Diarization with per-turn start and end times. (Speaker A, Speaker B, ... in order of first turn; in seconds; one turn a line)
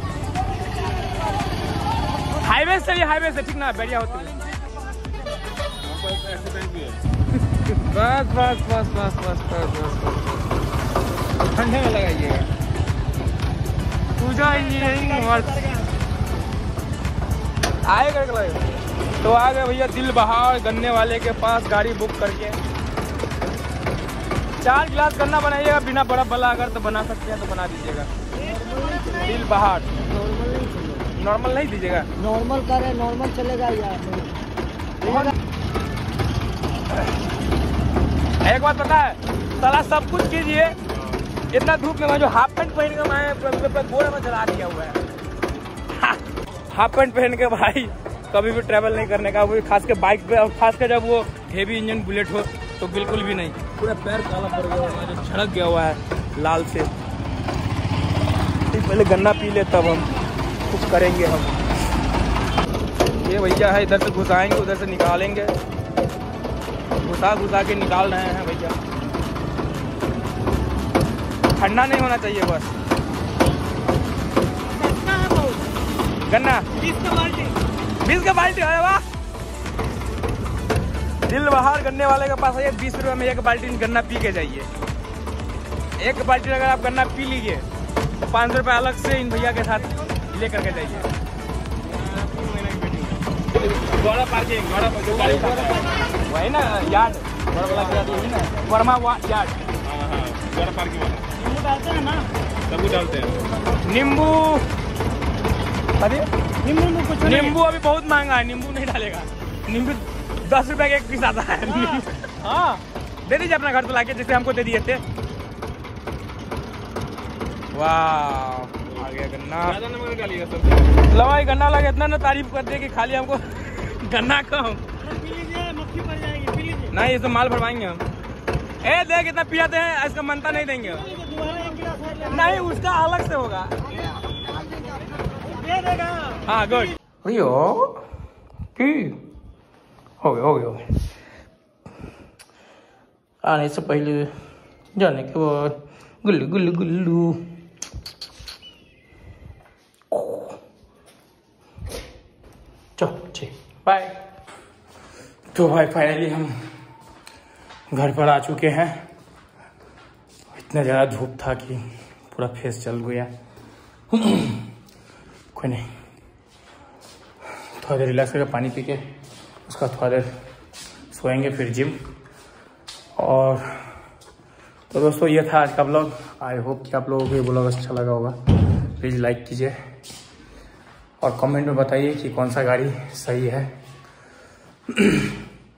Speaker A: 2.3-4.4
Speaker B: 4.5-5.3
Speaker C: 5.8-7.0
Speaker A: 7.5-10.5
Speaker A: 11.4-12.5
Speaker A: 14.2-15.8
Speaker A: 17.8-18.7
Speaker A: 19.2-22.6
Speaker A: 24.6-28.1
Speaker B: 28.4-29.1
Speaker A: 29.1-29.9
Speaker B: 30.2-31.0
Speaker A: 31.1-32.1
Speaker B: 32.4-34.4
Speaker A: 35.0-35.4
Speaker A: 38.4-40.8
Speaker A: 41.5-45.0
Speaker A: 45.9-56.9
Speaker A: 58.7-60.1
Speaker A: 60.6-61.6
Speaker A: 63.2-65.5
Speaker A: 67.0-68.8
Speaker A: 71.5-72.7
Speaker B: 74.7-75.7
Speaker A: 76.2-77.2
Speaker B: 76.9-77.5
Speaker A: 78.0-79.0
Speaker A: 81.2-84.7
Speaker A: 86.0-87.7
Speaker A: 88.3-91.1
Speaker C: 91.8-95.9
Speaker A: 93.6-99.7
Speaker C: 99.8-101.4
Speaker B: 101.4-102.3
Speaker C: 102.6-103.5
Speaker A: 103.8-104.7
Speaker A: 106.0-106.3
Speaker B: 106.6-107.5
Speaker A: 107.1-115.0
Speaker A: 117.7-119.8
Speaker C: 119.6-121.0
Speaker A: 121.1-124.8
Speaker B: 125.0-126.9
Speaker A: 126.9-128.0
Speaker A: 128.8-131.1
Speaker B: 131.1-132.6
Speaker A: 132.2-133.8
Speaker B: 134.4-136.5
Speaker A: 136.4-138.1
Speaker A: 138.7-139.2
Speaker A: 140.2-140.8
Speaker A: 143.4-144.3
Speaker A: 144.9-147.5
Speaker A: 150.1-150.6
Speaker A: 152.9-154.2
Speaker A: 155.5-156.6
Speaker A: 157.9-159.1
Speaker A: 160.5-163.3
Speaker A: 164.1-164.7
Speaker A: 165.5-165.9
Speaker A: 167.8-169.0
Speaker A: 169.7-170.3
Speaker A: 171.1-172.0
Speaker A: 173.2-173.9
Speaker A: 174.9-178.4
Speaker A: 179.0-179.8
Speaker A: 181.2-183.7
Speaker A: 184.9-185.4